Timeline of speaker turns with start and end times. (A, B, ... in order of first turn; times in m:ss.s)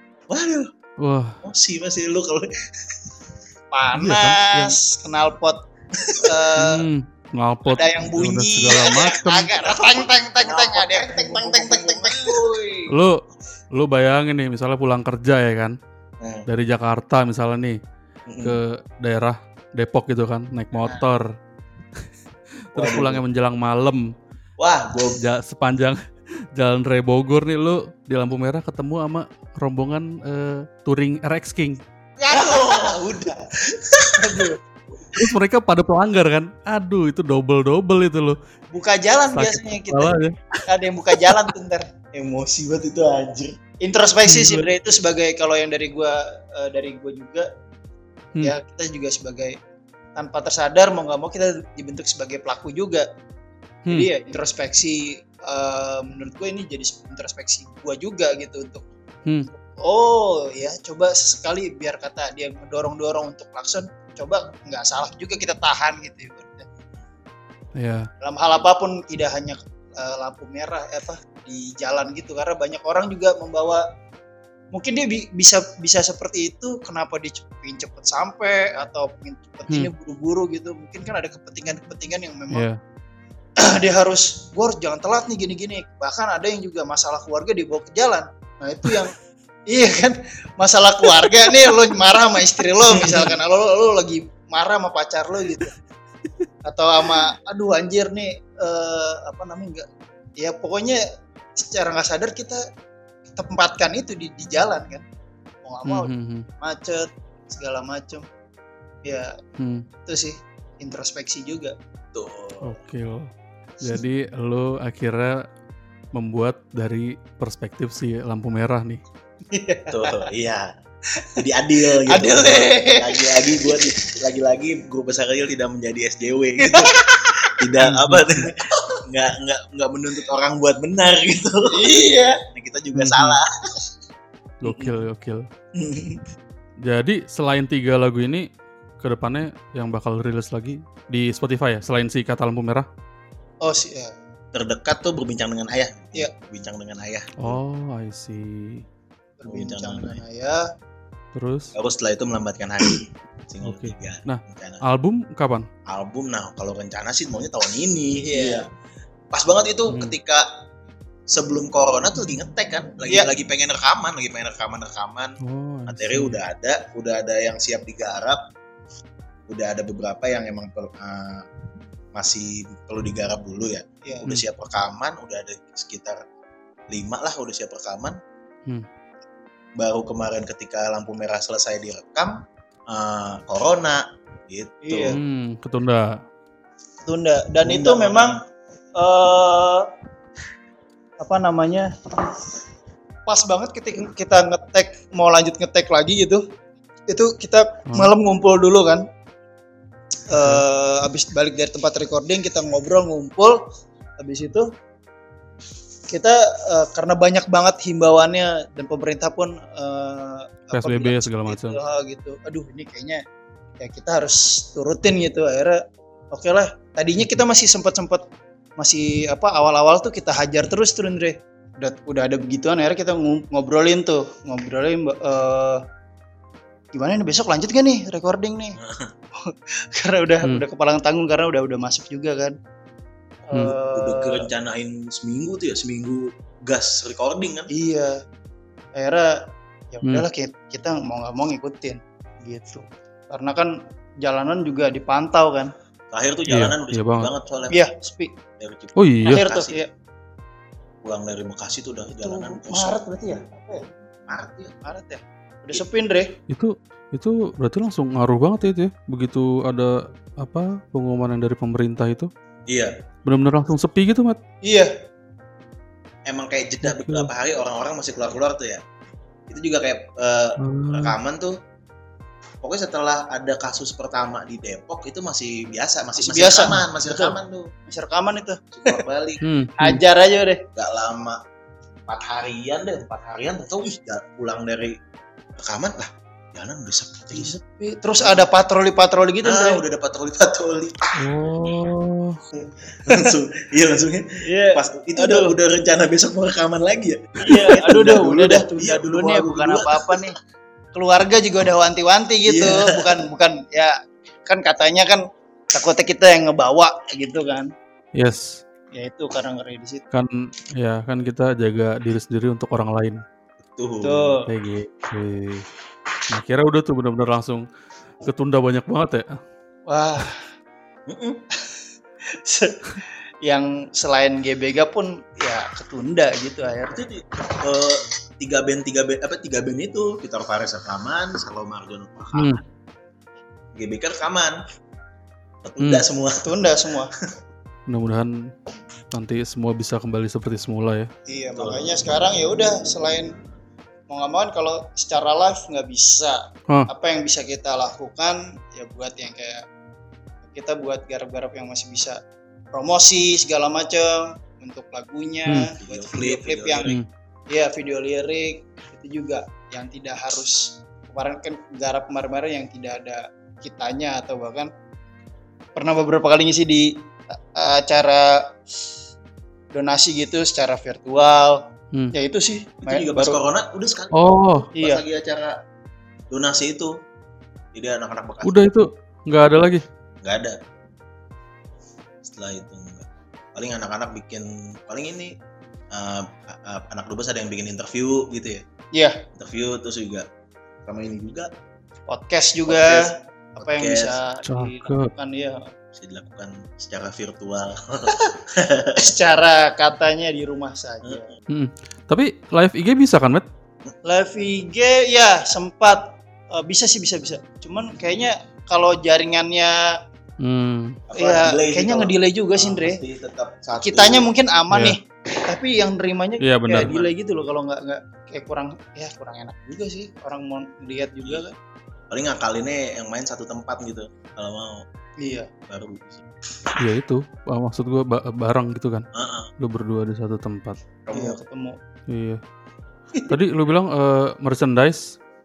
0:00.3-0:00.7 A
0:01.0-0:01.4 B
0:01.4-0:03.0 A
0:03.7-0:05.6 C
0:03.9-0:04.8 B
0:06.0-0:06.4 A
0:06.2-0:06.8 C
0:06.6-0:09.5 B
0:07.7-0:12.9 C
0:09.6-0:12.7 A
0:12.9-0:13.2 B
0:13.7-0:15.8 B
0:16.2-0:16.5 A
0:16.5-0:17.8 B
0:18.3-0:18.6 A
0:18.4-0:21.3 B
0:22.7-0:24.1 B
0:22.8-0:23.2 A
0:24.6-0:25.2 A
0:25.2-0:26.0 B
0:26.5-0:31.8 B
0:32.2-0:32.8 C
0:32.3-0:34.5 A
0:34.2-0:34.6 C
0:35.1-0:38.4 B
0:38.7-0:41.9 C
0:39.3-0:40.4 B
0:42.1-0:43.6 A
0:43.8-0:47.5 C
0:44.3-0:44.7 B
0:48.4-0:49.6 C
0:50.2-0:53.1 C
0:53.9-0:58.8 C
0:59.8-1:06.7 C
1:07.8-1:08.1 B
1:08.2-1:13.8 C
1:14.7-1:22.7 C
1:22.5-1:22.8 B
1:23.6-1:29.1 C
1:29.7-1:35.7 C
1:32.9-1:33.4 B
1:36.7-1:39.9 C
1:40.4-1:41.0 C
1:41.6-1:42.6 C
1:43.3-1:45.0 C
1:45.6-1:48.3 C
1:45.9-1:46.5 B
1:49.0-1:49.3 C
1:49.6-1:49.8 B
1:50.1-1:51.8 C
1:52.1-1:52.8 A
1:52.6-1:53.3 B
1:53.8-1:55.5 B
1:56.1-1:59.0 B
1:59.5-2:00.2 C
1:59.9-2:00.7 A
2:01.4-2:11.8 A
2:02.0-2:03.8 C
2:06.6-2:07.0 C
2:07.8-2:08.4 B
2:11.7-2:12.4 C
2:12.5-2:13.9 A
2:13.0-2:13.4 B
2:14.6-2:15.5 B
2:14.7-2:14.9 C
2:16.8-2:18.5 B
2:19.0-2:22.9 B
2:23.6-2:24.1 C
2:24.5-2:27.6 A
2:27.4-2:28.8 B
2:29.4-2:30.6 C
2:29.5-2:30.2 A
2:31.3-2:31.7 B
2:31.7-2:34.8 A
2:33.6-2:35.7 B
2:35.9-2:38.6 A
2:38.2-2:38.6 C
2:39.3-2:40.5 A
2:39.9-2:40.2 B
2:41.3-2:45.3 A
2:45.4-2:46.4 B
2:45.9-2:48.4 A
2:49.5-2:51.5 A
2:52.2-2:56.2 A
2:56.9-2:58.2 A
2:59.8-3:05.2 A
3:04.8-3:05.2 C
3:05.1-3:06.2 B
3:07.1-3:08.4 C
3:07.6-3:08.4 A
3:09.0-3:09.9 C
3:11.2-3:11.9 C
3:13.3-3:16.4 C
3:17.1-3:19.0 C
3:20.3-3:23.6 C
3:24.2-3:24.7 C
3:26.1-3:33.2 C
3:30.7-3:31.8 B
3:33.8-3:35.8 C
3:36.3-3:38.2 C
3:38.8-3:45.8 C
3:46.9-3:48.8 C
3:48.8-3:49.1 A
3:49.4-3:52.6 C
3:53.5-3:54.5 C
3:53.8-3:57.7 A
3:57.7-3:58.2 C
3:59.0-3:59.4 C
3:59.9-4:05.7 C
4:06.1-4:07.8 A
4:06.5-4:07.3 B
4:07.7-4:08.3 C
4:08.6-4:09.8 A
4:09.0-4:09.4 B
4:09.3-4:09.9 C
4:11.0-4:13.0 A
4:12.1-4:13.8 C
4:14.3-4:14.8 A
4:14.8-4:16.3 C
4:16.5-4:22.3 B
4:22.7-4:22.9 A
4:23.2-4:24.4 B
4:24.6-4:24.9 C
4:26.3-4:28.8 A
4:26.8-4:27.3 B
4:29.5-4:31.6 A
4:30.6-4:31.2 B
4:32.6-4:37.7 A
4:36.2-4:37.4 C
4:37.9-4:39.0 C
4:38.7-4:39.4 A
4:39.4-4:40.0 B
4:39.8-4:40.6 C
4:40.8-4:41.4 A
4:42.1-4:45.0 A
4:45.6-4:47.5 A
4:47.3-4:49.8 C
4:48.2-4:48.5 A
4:49.4-4:51.1 A
4:51.2-4:52.4 B
4:52.6-5:00.3 A
4:54.4-4:55.6 C
4:57.4-5:00.4 C
5:01.0-5:04.0 C
5:02.4-5:03.2 A
5:04.5-5:07.7 C
5:08.2-5:08.6 B
5:09.0-5:10.0 C
5:10.1-5:13.2 B
5:13.6-5:14.4 A
5:14.0-5:14.5 C
5:14.5-5:15.7 B
5:16.3-5:17.7 B
5:18.2-5:19.3 B
5:19.9-5:20.4 C
5:21.1-5:21.4 A
5:22.3-5:27.0 C
5:26.9-5:32.6 A
5:32.4-5:32.6 B
5:33.8-5:34.6 A
5:35.6-5:36.6 A
5:36.4-5:37.1 C
5:37.9-5:38.3 B
5:39.1-5:41.1 B
5:41.3-5:43.3 C
5:41.6-5:42.0 A
5:44.1-5:49.6 C
5:50.5-5:52.2 C
5:52.7-5:56.9 C
5:55.5-5:55.7 B
5:55.8-5:57.0 A
5:57.5-6:04.7 C
6:05.8-6:08.4 C
6:09.7-6:11.6 C
6:12.1-6:13.4 C
6:12.8-6:15.5 A
6:14.2-6:14.7 B
6:14.8-6:15.0 C
6:16.3-6:16.9 A
6:17.7-6:18.7 A
6:18.4-6:19.8 B
6:20.2-6:20.6 A
6:22.2-6:25.3 A
6:25.9-6:28.6 A
6:29.4-6:30.3 A
6:30.9-6:31.5 A
6:32.1-6:35.7 C
6:32.7-6:34.2 A
6:34.5-6:35.1 B
6:35.9-6:39.0 A
6:39.0-6:41.3 C
6:41.0-6:41.4 A
6:41.5-6:43.4 B
6:44.0-6:49.9 C
6:50.4-6:51.0 B
6:51.1-6:54.3 A
6:51.2-6:53.0 C
6:53.8-7:01.5 C
6:54.7-6:55.0 B
6:56.4-6:56.9 B
6:56.8-6:57.1 A
7:02.1-7:04.8 A
7:05.2-7:05.5 C
7:05.7-7:06.2 A
7:06.8-7:09.1 B
7:09.1-7:09.5 A
7:09.6-7:10.8 B
7:11.1-7:11.4 A
7:11.1-7:11.8 C
7:12.1-7:12.4 B
7:13.3-7:15.2 B